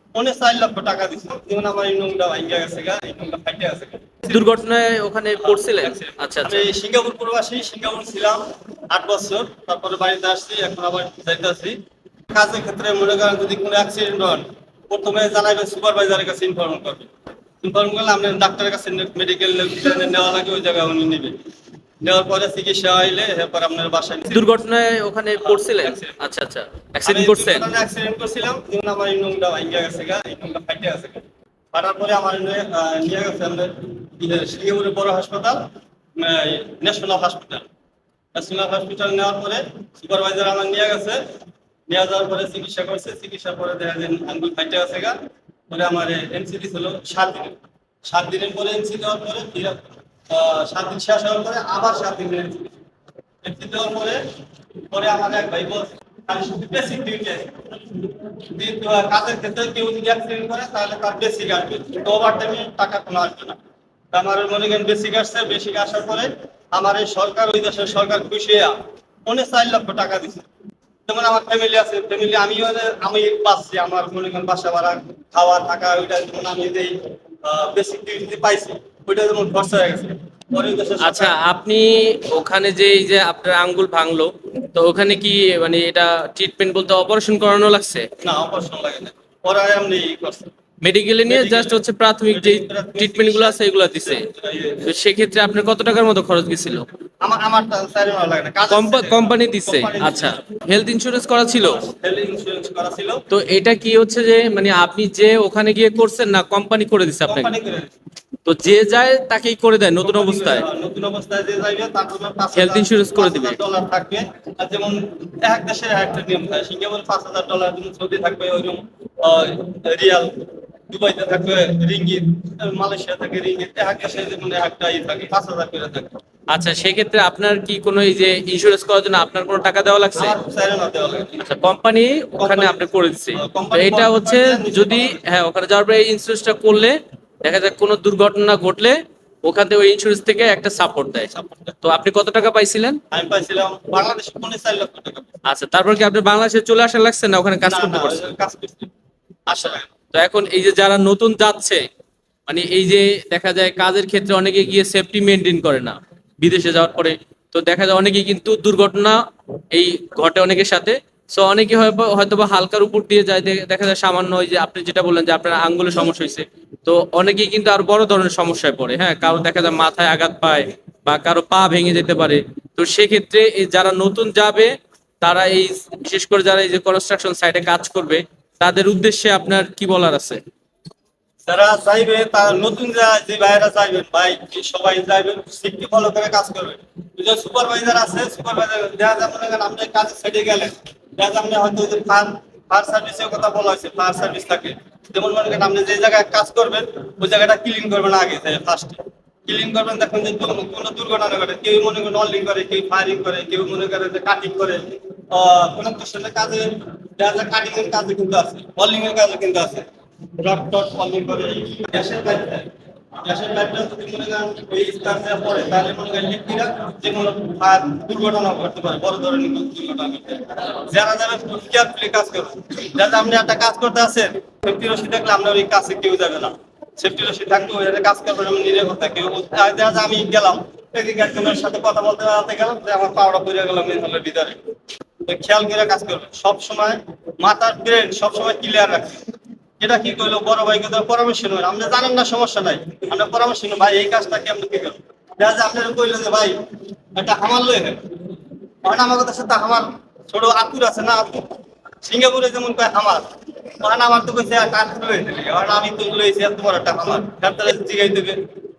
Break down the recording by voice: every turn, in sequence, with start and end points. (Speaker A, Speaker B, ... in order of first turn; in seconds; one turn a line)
Speaker A: 0.1-4.5
Speaker B: 4.3-6.7
Speaker A: 5.4-11.8
Speaker A: 12.3-17.1
Speaker A: 17.6-21.4
Speaker A: 22.0-24.6
Speaker B: 24.3-27.7
Speaker A: 25.4-26.3
Speaker A: 27.1-35.6
Speaker A: 36.2-37.7
Speaker A: 38.3-41.2
Speaker A: 41.9-45.2
Speaker A: 45.7-52.8
Speaker A: 53.4-54.2
Speaker A: 54.9-57.6
Speaker A: 58.4-63.6
Speaker A: 64.1-70.5
Speaker A: 71.1-81.4
Speaker B: 81.0-88.1
Speaker A: 88.2-90.5
Speaker B: 90.8-94.3
Speaker A: 91.3-94.9
Speaker B: 94.8-96.9
Speaker A: 97.2-100.4
Speaker B: 98.7-101.8
Speaker A: 101.6-103.2
Speaker B: 103.3-107.5
Speaker A: 107.3-107.9
Speaker B: 108.5-110.7
Speaker A: 110.0-126.1
Speaker B: 112.5-113.6
Speaker B: 126.5-130.4
Speaker A: 130.2-131.4
Speaker B: 131.4-143.0
Speaker A: 132.4-135.2
Speaker A: 141.3-141.8
Speaker A: 143.1-145.3
Speaker B: 145.4-148.3
Speaker A: 147.7-148.9
Speaker A: 149.5-149.9
Speaker B: 150.1-151.8
Speaker B: 152.5-159.2
Speaker B: 159.7-180.4
Speaker A: 181.5-209.9
Speaker A: 210.4-234.6
Speaker A: 235.3-239.3
Speaker A: 239.8-246.6
Speaker A: 247.2-248.0
Speaker A: 248.8-253.3
Speaker A: 253.8-258.4